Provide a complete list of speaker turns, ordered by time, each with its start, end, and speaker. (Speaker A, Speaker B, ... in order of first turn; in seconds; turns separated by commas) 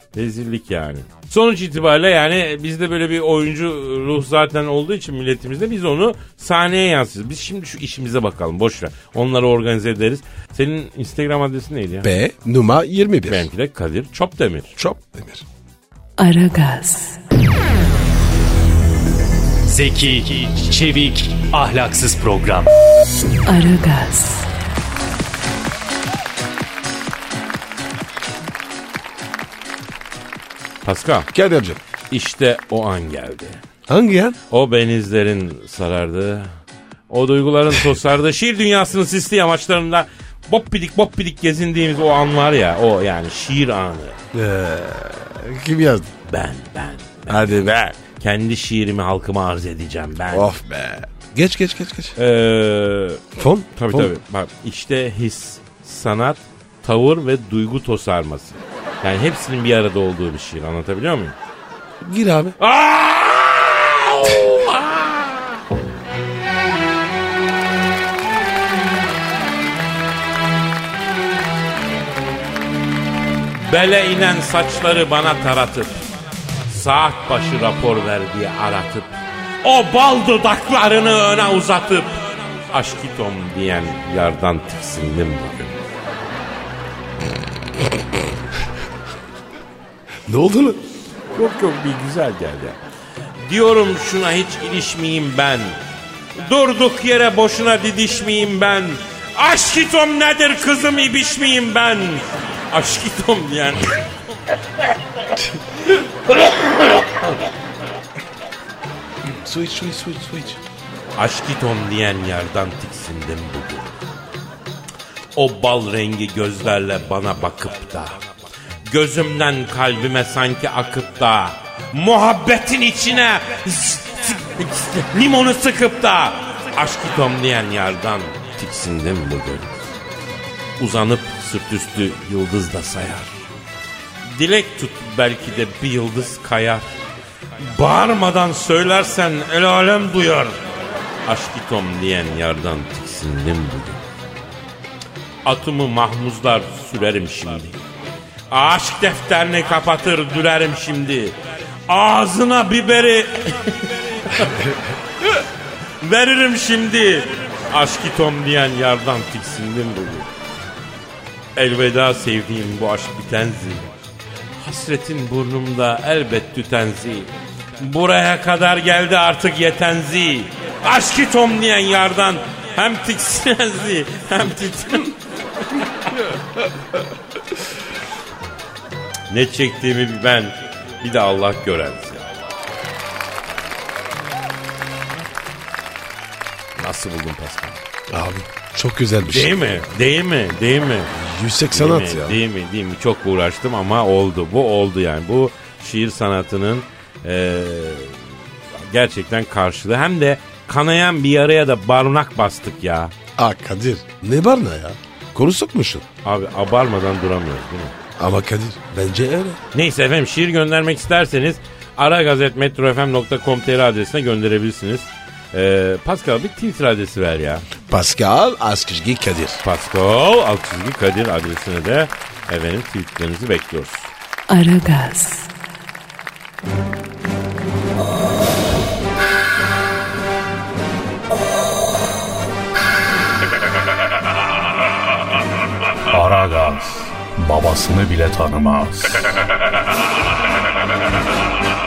Speaker A: 0.1-12.1, Speaker B: 12.0-13.5, Speaker A: 13.3-14.7, Speaker B: 14.8-15.4, Speaker C: 16.2-17.2, Speaker D: 19.7-22.7, Speaker C: 23.5-24.5, Speaker A: 30.8-31.3, Speaker B: 31.3-31.8, Speaker A: 32.1-33.6, Speaker B: 33.9-34.4, Speaker A: 34.5-36.5, Speaker A: 37.1-44.2, Speaker B: 44.3-46.1, Speaker A: 46.3-50.5, Speaker B: 47.3-48.0, Speaker B: 50.3-52.2, Speaker A: 52.2-61.4, Speaker B: 53.4-54.1, Speaker B: 62.0-62.6, Speaker A: 62.6-65.6, Speaker A: 73.6-76.1, Speaker A: 76.7-82.2, Speaker A: 82.7-85.8, Speaker B: 90.3-90.8, Speaker A: 91.3-92.8, Speaker A: 93.4-95.7, Speaker A: 96.4-104.2, Speaker B: 109.3-110.6, Speaker A: 111.2-114.0, Speaker A: 115.4-118.2, Speaker A: 118.9-129.8, Speaker A: 130.8-133.3, Speaker A: 134.3-136.9, Speaker A: 137.6-140.6, Speaker A: 141.3-144.0, Speaker A: 145.4-147.8, Speaker A: 148.5-151.4, Speaker A: 151.9-154.7, Speaker B: 154.4-154.7, Speaker A: 156.0-160.3, Speaker A: 161.6-163.9, Speaker A: 164.6-175.2, Speaker A: 175.7-176.1, Speaker A: 179.3-182.2, Speaker A: 186.8-187.8, Speaker B: 188.1-189.5, Speaker A: 189.3-191.1, Speaker B: 191.1-192.4, Speaker A: 191.7-198.2, Speaker A: 198.8-203.1, Speaker B: 203.4-206.1, Speaker A: 206.2-207.9, Speaker B: 208.2-209.6, Speaker A: 209.7-217.7, Speaker B: 217.9-219.6, Speaker A: 219.6-224.1, Speaker C: 224.5-225.5, Speaker E: 236.1-239.3